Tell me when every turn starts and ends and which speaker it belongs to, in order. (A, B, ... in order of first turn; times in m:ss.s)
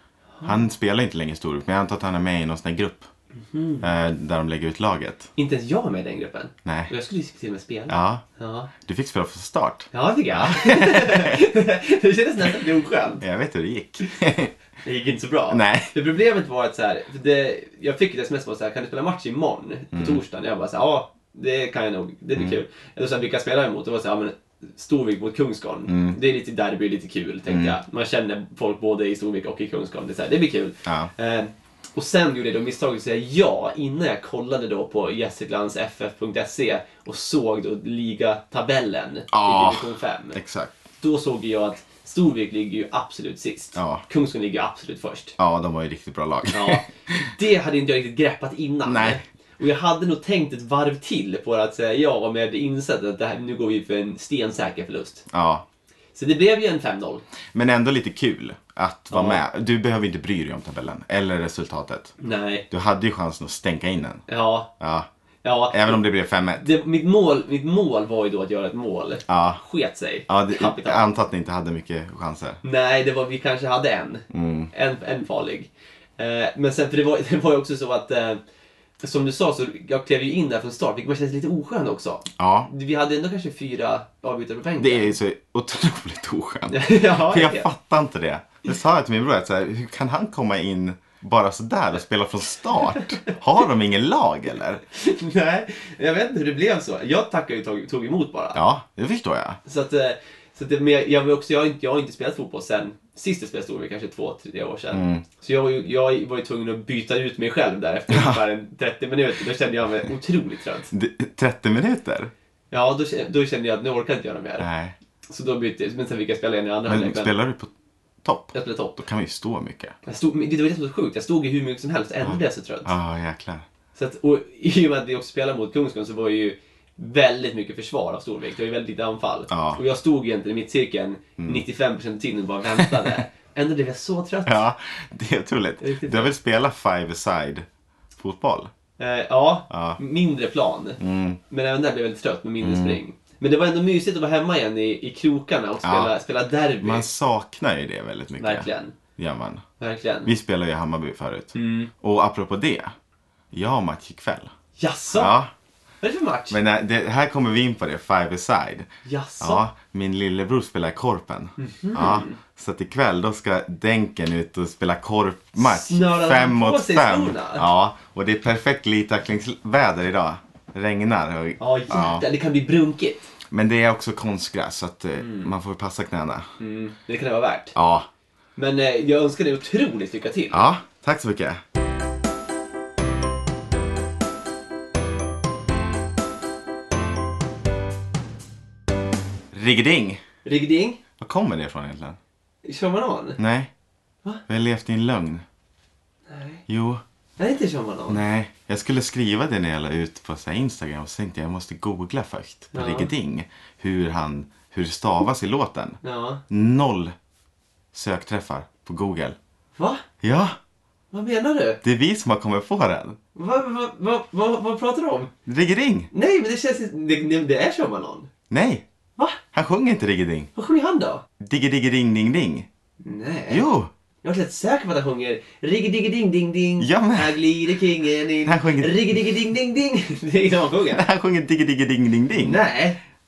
0:00.4-0:03.1 A
0:03.5-0:03.9 B
0:03.8-0:05.3 A
0:05.4-0:08.7 B
0:06.6-0:06.9 A
0:07.9-0:08.2 A
0:08.8-0:11.4 A
0:09.9-0:13.2 B
0:13.2-0:14.5 A
0:14.8-0:40.4 B
0:15.5-0:15.9 A
0:19.9-0:20.2 A
0:25.9-0:26.2 A
0:27.5-0:27.8 A
0:30.8-0:31.1 A
0:39.3-0:40.7 A
0:41.0-0:45.4 B
0:43.7-0:44.0 A
0:45.4-0:47.3 A
0:46.5-0:55.2 B
0:48.8-0:49.2 A
0:55.3-0:55.6 A
0:56.1-0:57.2 B
0:57.5-1:02.1 A
0:59.1-0:59.4 B
1:02.2-1:02.6 B
1:02.7-1:04.2 A
1:04.3-1:04.7 B
1:04.8-1:05.1 A
1:05.4-1:06.0 B
1:05.7-1:06.7 A
1:06.6-1:11.1 B
1:09.3-1:09.6 A
1:10.3-1:12.6 A
1:12.6-1:18.4 B
1:14.3-1:14.7 A
1:19.0-1:25.1 B
1:22.4-1:22.7 A
1:24.8-1:34.8 A
1:26.7-1:27.7 B
1:34.9-1:38.6 B
1:38.5-1:39.6 A
1:39.6-1:50.9 B
1:44.9-1:45.2 A
1:48.1-1:48.4 A
1:50.9-1:52.3 A
1:52.7-1:54.7 B
1:54.6-1:55.0 A
1:55.3-1:57.3 B
1:56.8-1:57.7 A
1:58.2-1:59.9 A
1:58.5-1:59.0 B
2:00.0-2:02.9 B
2:02.2-2:03.6 A
2:03.9-2:14.6 B
2:09.5-2:09.8 A
2:11.4-2:11.6 A
2:14.4-2:18.7 A
2:15.8-2:16.3 B
2:19.0-2:27.0 B
2:19.7-2:20.0 A
2:21.0-2:21.4 A
2:22.6-2:23.0 A
2:25.8-2:26.1 A
2:26.8-2:29.6 A
2:28.4-2:28.9 B
2:29.8-2:30.3 B
2:30.2-2:32.9 A
2:31.5-2:31.9 B
2:33.5-2:34.5 A
2:34.8-2:35.3 B
2:35.1-2:35.5 A
2:36.0-2:36.6 B
2:36.5-2:52.2 A
2:39.0-2:39.6 B
2:41.6-2:42.4 B
2:45.6-2:47.7 B
2:51.6-2:53.3 B
2:53.5-2:56.5 A
2:55.2-2:55.5 B
2:56.6-2:57.7 B
2:57.7-2:58.1 A
2:58.6-3:00.6 B
3:00.5-3:01.6 A
3:09.5-3:10.2 A
3:10.4-3:11.0 B
3:11.2-3:12.2 A
3:12.6-3:13.4 B
3:13.4-3:13.7 A
3:14.5-3:15.4 A
3:16.3-3:16.6 B
3:16.7-3:17.0 A
3:17.4-3:18.2 B
3:18.1-3:27.1 A
3:22.7-3:23.1 B
3:26.0-3:26.4 B
3:27.9-3:29.4 A
3:29.8-3:30.0 B
3:30.2-3:30.6 A
3:31.1-3:31.8 B
3:31.8-3:33.2 A
3:33.3-3:35.3 B
3:35.4-3:36.1 A
3:36.1-3:38.3 B
3:38.5-3:38.8 A
3:39.5-3:40.5 A
3:40.5-3:41.2 B
3:41.4-3:42.7 A
3:43.0-3:43.6 B
3:43.5-3:43.9 A
3:44.2-3:51.0 B
3:46.8-3:47.4 A
3:48.4-3:49.2 A
3:50.9-3:52.6 A
3:52.3-3:53.0 B